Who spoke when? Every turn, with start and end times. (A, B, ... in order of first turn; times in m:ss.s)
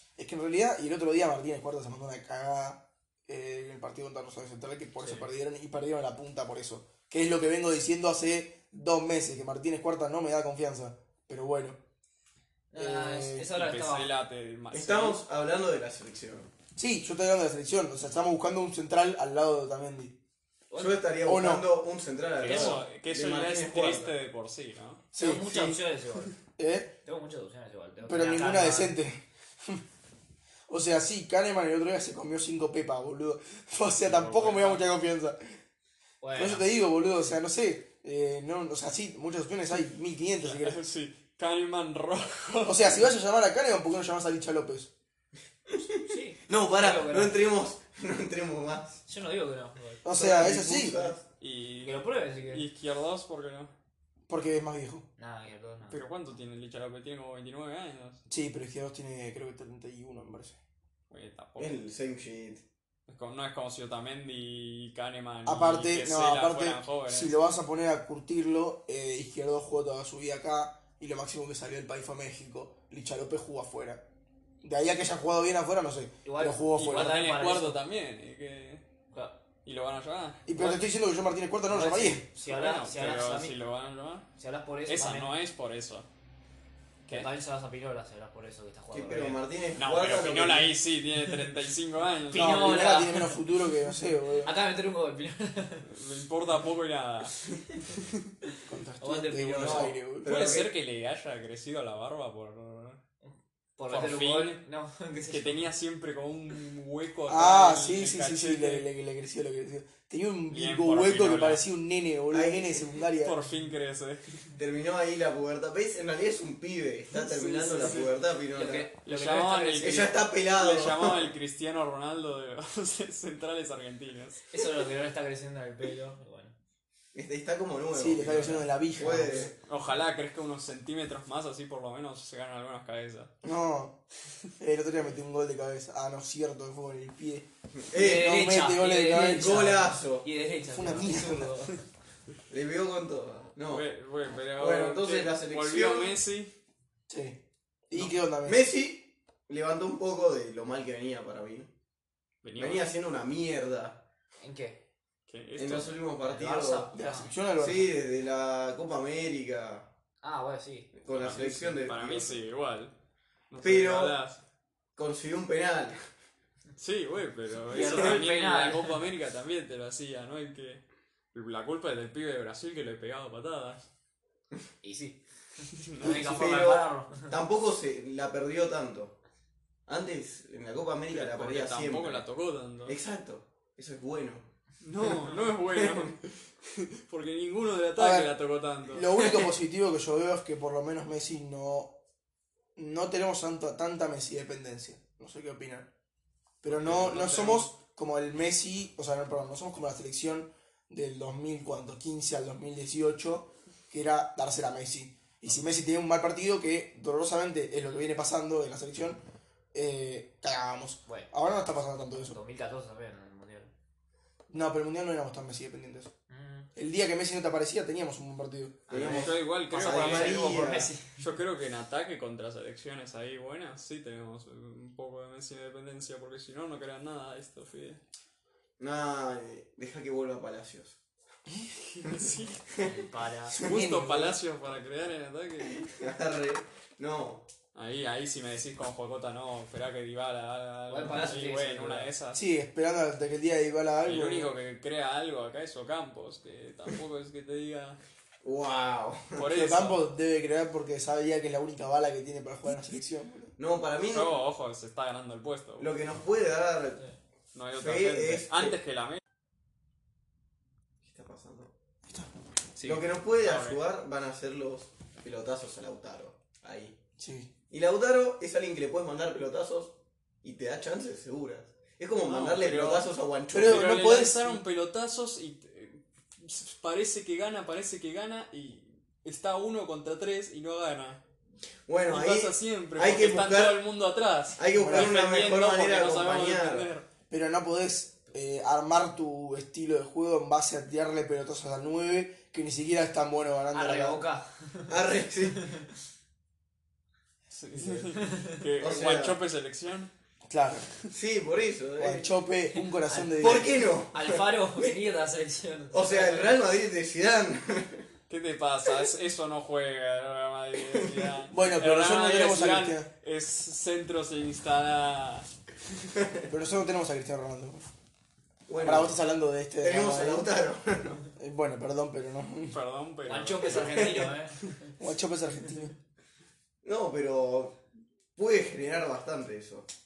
0:00.2-0:11.8 A
0:12.7-0:14.1 B
0:12.8-0:13.5 A
0:13.5-0:15.2 C
0:14.7-0:16.5 D
0:16.7-0:20.1 A
0:20.7-0:21.0 B
0:20.7-0:24.1 D
0:21.2-0:21.6 A
0:22.4-0:25.0 C
0:22.5-0:22.7 B
0:25.1-0:25.8 A
0:25.2-0:26.3 B
0:26.6-0:26.9 A
0:27.0-0:29.0 B
0:28.0-0:29.8 A
0:30.7-0:35.4 A
0:34.0-0:34.8 C
0:36.2-0:36.6 B
0:36.3-0:40.8 A
0:40.4-0:43.0 C
0:42.6-0:44.9 A
0:45.7-0:49.0 D
0:46.0-0:47.4 B
0:49.1-0:50.0 B
0:50.0-0:51.0 A
0:50.1-0:51.2 D
0:51.4-0:53.7 C
0:51.8-0:52.6 B
0:54.3-0:55.0 A
0:55.2-0:56.0 B
0:55.9-0:58.2 C
0:58.3-1:00.6 A
1:01.1-1:01.8 C
1:01.6-1:02.6 D
1:03.1-1:07.3 C
1:05.4-1:14.0 A
1:14.6-1:17.2 A
1:16.2-1:17.8 B
1:16.7-1:18.8 C
1:19.1-1:19.4 B
1:19.6-1:20.9 C
1:20.4-1:22.2 A
1:21.7-1:23.6 B
1:22.4-1:24.3 C
1:24.4-1:25.3 B
1:24.9-1:26.1 C
1:27.1-1:29.4 B
1:28.9-1:30.8 D
1:29.8-1:32.9 C
1:32.3-1:33.4 B
1:32.3-1:34.5 A
1:34.4-1:35.9 B
1:35.8-1:37.4 C
1:37.9-1:38.3 C
1:38.6-1:40.6 A
1:39.0-1:40.0 B
1:39.5-1:40.7 D
1:40.2-1:43.0 C
1:43.2-1:45.6 B
1:43.9-1:44.6 C
1:45.3-1:48.8 C
1:47.3-1:53.4 A
1:50.5-1:51.6 C
1:52.3-1:52.9 D
1:53.2-1:54.5 C
1:54.6-1:58.9 D
1:57.1-2:00.2 B
1:57.8-1:58.0 C
1:59.0-2:04.6 C
1:59.8-2:01.3 D
2:04.5-2:06.5 B
2:07.1-2:09.6 D
2:07.9-2:09.5 A
2:09.6-2:13.3 C
2:13.4-2:14.0 A
2:14.6-2:19.7 A
2:17.7-2:18.3 D
2:17.9-2:21.8 B
2:19.2-2:20.2 D
2:20.7-2:21.5 A
2:22.5-2:23.8 D
2:23.7-2:26.5 C
2:24.5-2:26.2 D
2:27.1-2:28.6 A
2:27.9-2:31.7 D
2:32.4-2:32.9 C
2:32.6-2:34.0 D
2:34.4-2:34.8 B
2:35.3-2:36.0 C
2:35.6-2:36.9 D
2:36.2-2:37.3 B
2:36.9-2:37.9 A
2:37.6-2:39.9 D
2:40.2-2:40.9 B
2:40.9-2:42.4 D
2:41.1-2:42.9 C
2:43.5-2:44.4 C
2:43.6-2:44.2 D
2:45.0-2:46.0 D
2:46.8-2:53.9 C
2:47.7-2:49.0 B
2:47.7-2:48.2 D
2:54.8-2:57.4 B
2:55.8-2:56.2 C
2:56.0-2:59.2 D
2:59.9-3:02.2 D
3:01.1-3:03.0 C
3:02.8-3:04.5 D
3:04.8-3:09.4 C
3:05.7-3:06.1 D
3:08.0-3:08.3 A
3:08.8-3:11.9 A
3:12.8-3:15.9 A
3:16.6-3:29.2 A
3:16.7-3:17.7 C
3:29.7-3:32.4 A
3:32.1-3:33.7 B
3:34.5-3:36.1 A
3:36.3-3:36.7 B
3:36.8-3:39.0 A
3:38.9-3:41.2 B
3:38.9-3:40.9 D
3:38.9-3:48.0 C
3:48.8-3:51.0 D
3:51.8-3:52.6 C
3:52.0-3:52.9 D
3:52.8-3:53.6 B
3:53.5-3:54.4 A
3:53.6-3:55.9 C
3:55.7-3:57.5 D
3:57.7-4:02.4 C
4:00.9-4:02.1 B
4:02.3-4:04.5 A
4:04.0-4:08.0 C
4:08.4-4:09.4 D
4:09.3-4:10.0 C
4:09.5-4:13.5 A
4:13.6-4:14.4 D
4:14.1-4:15.9 C
4:15.8-4:17.1 D
4:17.5-4:19.2 C
4:17.7-4:18.7 D
4:21.0-4:21.7 D
4:22.8-4:23.0 B
4:22.8-4:27.0 D
4:23.4-4:23.8 C
4:27.2-4:27.5 A
4:27.7-4:33.8 D
4:32.2-4:41.2 C
4:33.5-4:34.6 A
4:41.9-4:43.8 D
4:42.0-4:47.1 C
4:44.6-4:46.9 D
4:44.7-4:45.2 A
4:47.3-4:54.2 A
4:53.7-4:54.9 B
4:54.9-4:55.7 D
4:57.5-5:00.1 C
4:58.2-4:58.6 B
4:58.8-4:59.4 D
5:00.5-5:00.9 A
5:01.1-5:02.3 D
5:02.0-5:03.7 A
5:02.7-5:06.6 B
5:03.4-5:04.9 D
5:05.9-5:08.0 D
5:08.3-5:15.5 C
5:10.9-5:11.3 D
5:11.5-5:13.1 A
5:16.2-5:16.4 D
5:16.5-5:17.9 A
5:18.7-5:19.2 D
5:18.8-5:20.5 A
5:19.8-5:21.2 D
5:21.4-5:22.8 A
5:22.7-5:24.2 C
5:23.2-5:24.9 B
5:23.8-5:24.3 D
5:25.0-5:25.9 A
5:26.8-5:27.8 D
5:28.4-5:29.9 D